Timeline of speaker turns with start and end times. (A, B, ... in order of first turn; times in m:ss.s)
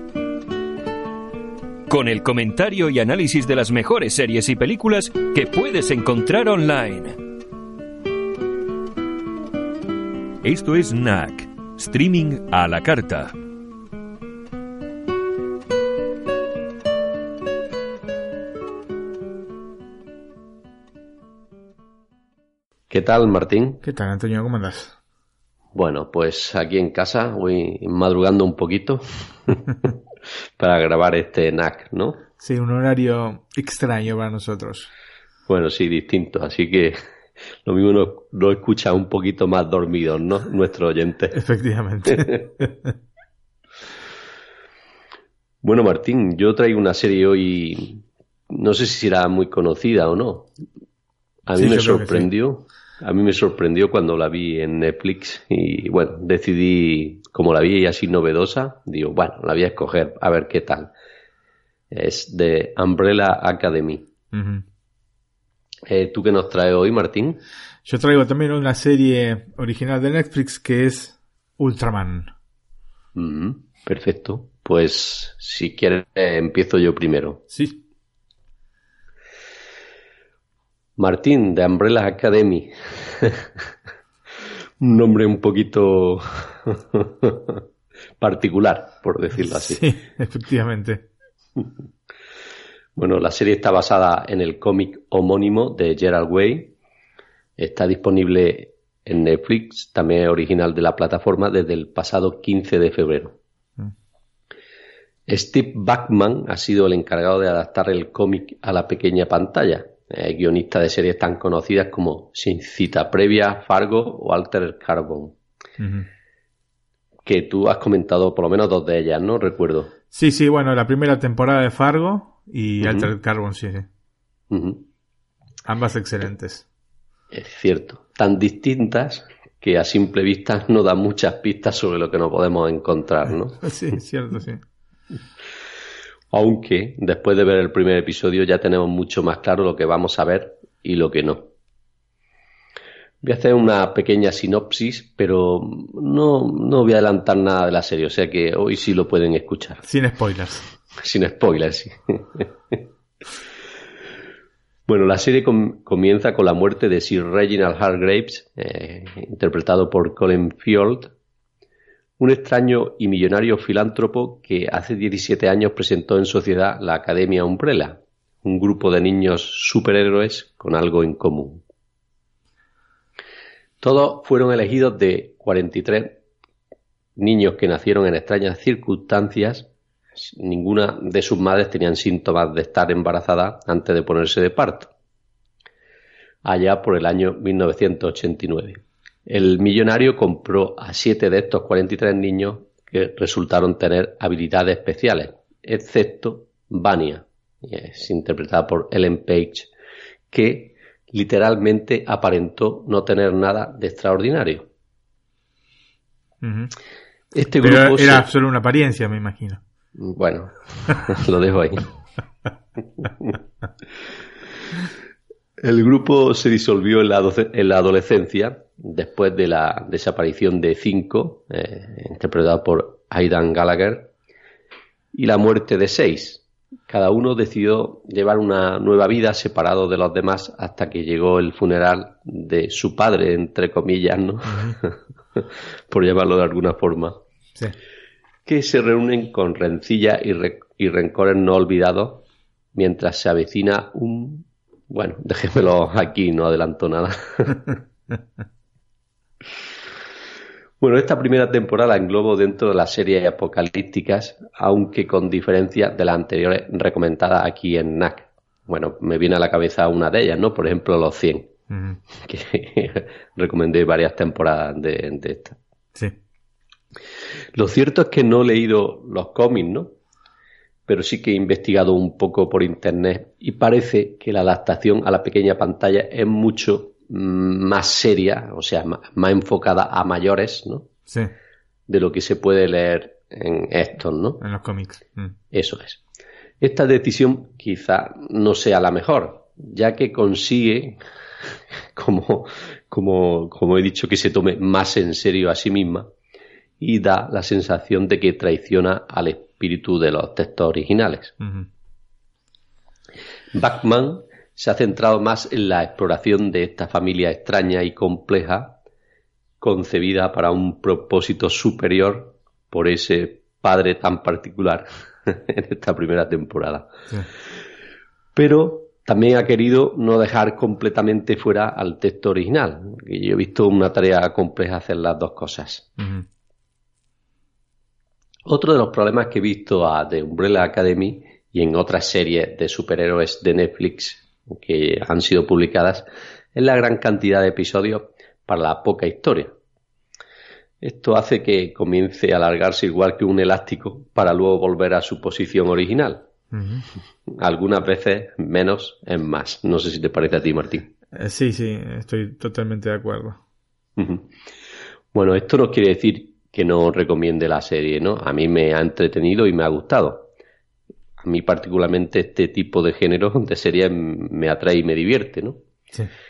0:01.9-0:07.2 A
0:10.4-0:13.3 A
0:22.9-0:23.8 B
0:23.8-0:25.0 C
0:25.8-0:29.7 B
0:30.6-0:32.2 B
0:32.4-0:34.9 C
0:35.5-0:37.0 B
0:37.6-0:41.4 B
0:41.3-0:42.9 C
0:45.6-0:50.5 B
0:51.5-1:00.9 B
0:51.6-0:52.3 C
1:01.9-1:04.1 B
1:04.3-1:04.6 C
1:05.9-1:07.4 B
1:07.8-1:12.3 C
1:13.2-1:17.4 B
1:17.5-1:17.8 C
1:21.0-1:23.5 B
1:24.8-1:27.6 B
1:28.2-1:29.9 B
1:29.4-1:31.1 C
1:33.0-1:36.7 B
1:37.6-1:43.4 B
1:45.3-1:55.4 B
1:55.8-1:56.1 C
1:57.3-1:59.9 B
2:00.1-2:03.9 C
2:02.8-2:03.1 B
2:04.5-2:04.8 B
2:05.7-2:06.6 C
2:07.3-2:13.6 B
2:13.6-2:14.6 C
2:16.3-2:21.5 B
2:23.2-2:29.8 B
2:29.8-2:30.7 C
2:31.0-2:32.8 B
2:34.9-2:41.1 B
2:42.2-2:51.6 B
2:53.8-2:56.2 B
2:57.2-3:04.9 B
3:06.4-3:19.7 B
3:20.3-3:24.7 B
3:26.4-3:26.7 C
3:27.3-3:28.3 B
3:27.6-3:29.6 C
3:30.0-3:31.9 B
3:33.0-3:33.4 B
3:35.6-3:44.1 B
3:45.1-3:57.2 B
3:54.5-3:54.8 C
3:58.5-4:07.7 B
4:10.8-4:21.5 B
4:21.7-4:22.0 C
4:22.2-4:25.6 B
4:27.5-4:29.9 B
4:30.9-4:40.9 B
4:41.9-4:44.4 B
4:44.4-4:45.4 C
4:45.5-4:46.0 B
4:46.6-4:51.0 B
4:51.9-4:56.1 B
4:56.8-5:01.4 B
5:01.4-5:01.7 C
5:03.5-5:08.8 B
5:09.6-5:16.9 B
5:18.4-5:25.9 B
5:26.0-5:26.2 C
5:28.5-5:39.5 B
5:40.8-5:46.3 B
5:46.5-5:46.8 C
5:47.3-5:50.9 B
5:51.1-5:53.4 C
5:54.0-5:54.3 B
5:55.1-6:00.3 B
6:01.2-6:05.6 B